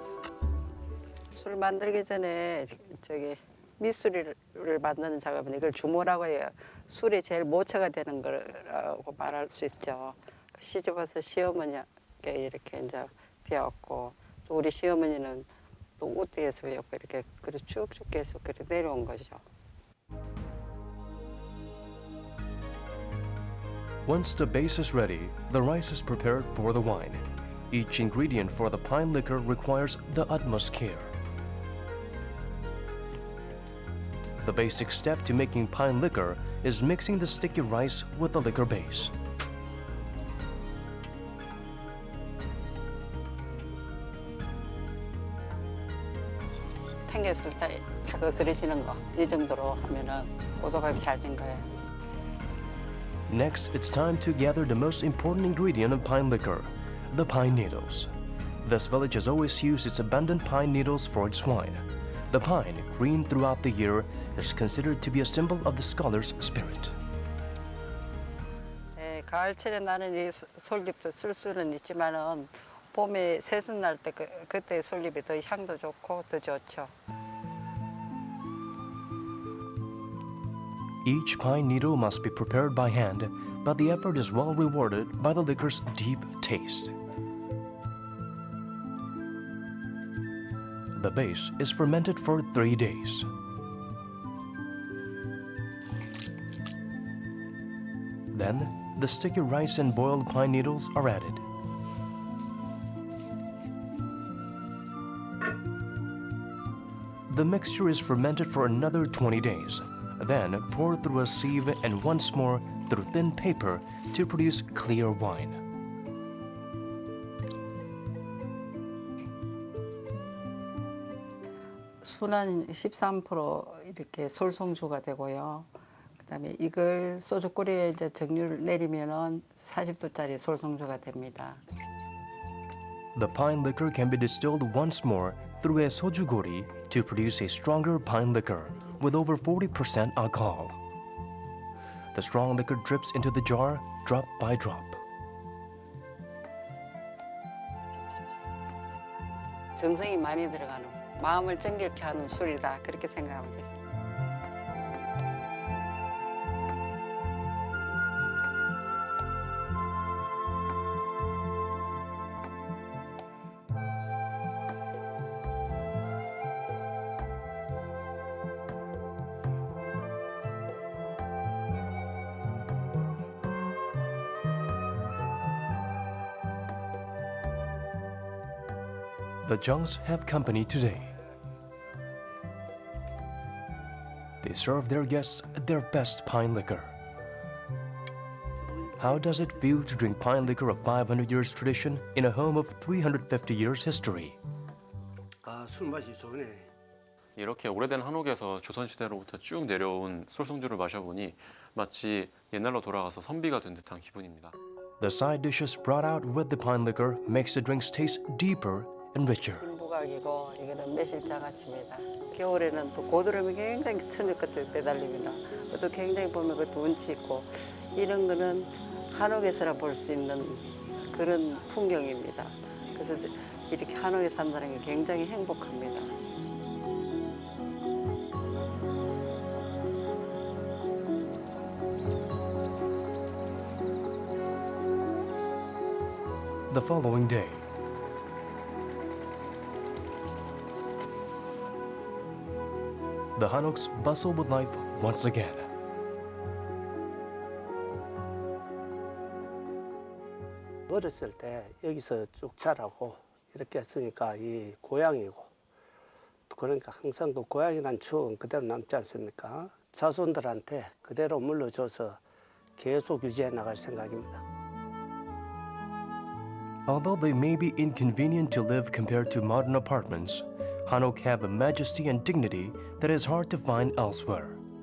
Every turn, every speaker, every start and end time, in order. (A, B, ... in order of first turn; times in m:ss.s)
0:01.3-0:19.4 A
0:24.0-0:31.1 B
0:34.4-0:39.1 B
0:47.1-0:51.7 A
0:53.3-0:58.1 B
0:58.6-1:07.0 B
1:09.0-1:16.9 A
1:21.0-1:27.0 B
1:31.0-1:33.3 B
1:38.3-1:41.4 B
1:47.3-1:55.6 B
2:02.0-2:05.7 A
2:06.2-2:11.6 A
2:13.2-2:20.8 B
2:22.1-2:25.0 B
2:29.8-2:33.8 A
2:59.4-3:01.2 B
3:04.4-3:07.0 B
3:09.0-3:14.4 B
3:15.4-3:16.7 C
3:17.4-3:24.6 D
3:25.0-3:29.6 B
3:29.6-3:46.1 A
3:56.7-3:57.7 B
4:03.4-4:05.7 B
4:10.9-4:15.5 C
4:16.5-4:22.2 C
4:22.8-4:24.4 C
4:26.9-4:34.6 B